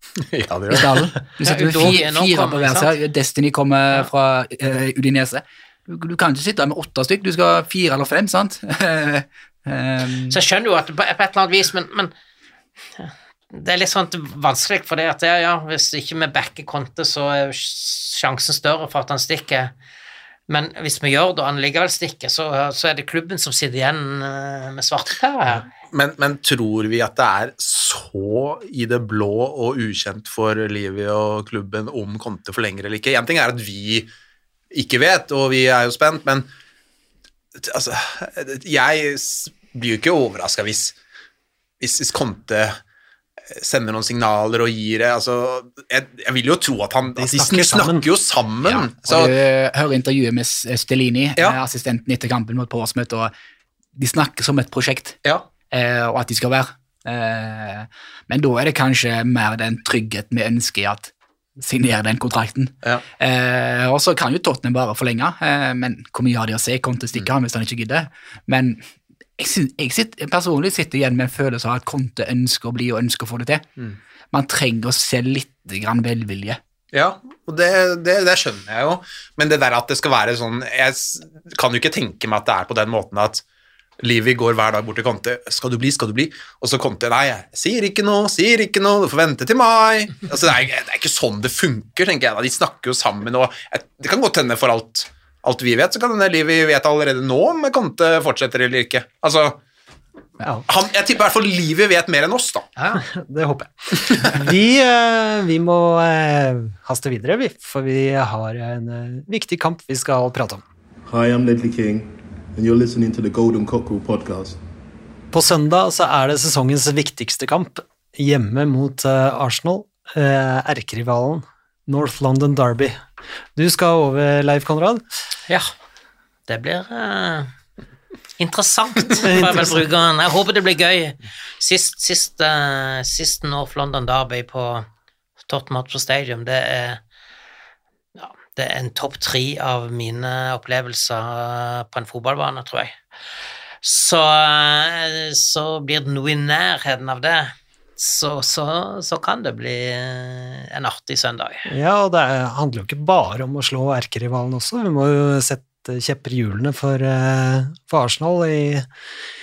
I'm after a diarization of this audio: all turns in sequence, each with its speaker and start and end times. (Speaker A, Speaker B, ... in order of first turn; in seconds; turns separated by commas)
Speaker A: 0.2-1.1, Speaker B: 0.7-10.4, Speaker C: 1.4-2.9, Speaker C: 10.3-12.1, Speaker C: 13.0-19.7, Speaker C: 20.5-25.6, Speaker A: 25.9-34.1, Speaker A: 34.7-36.5, Speaker A: 37.5-41.0, Speaker A: 41.8-42.8, Speaker A: 43.5-49.3, Speaker D: 47.2-48.0, Speaker B: 48.6-53.3, Speaker B: 54.0-55.2, Speaker B: 55.7-68.8, Speaker B: 69.4-73.7, Speaker B: 74.3-76.6, Speaker A: 76.9-83.4, Speaker A: 84.0-99.6, Speaker A: 100.7-102.7, Speaker C: 102.8-103.0, Speaker D: 103.0-110.6, Speaker E: 111.1-114.6, Speaker D: 115.3-123.0, Speaker D: 123.5-125.0, Speaker C: 126.5-127.5, Speaker C: 128.4-134.8, Speaker D: 129.2-129.8, Speaker C: 135.5-137.0, Speaker C: 138.2-142.9, Speaker C: 143.8-151.7, Speaker D: 151.7-158.9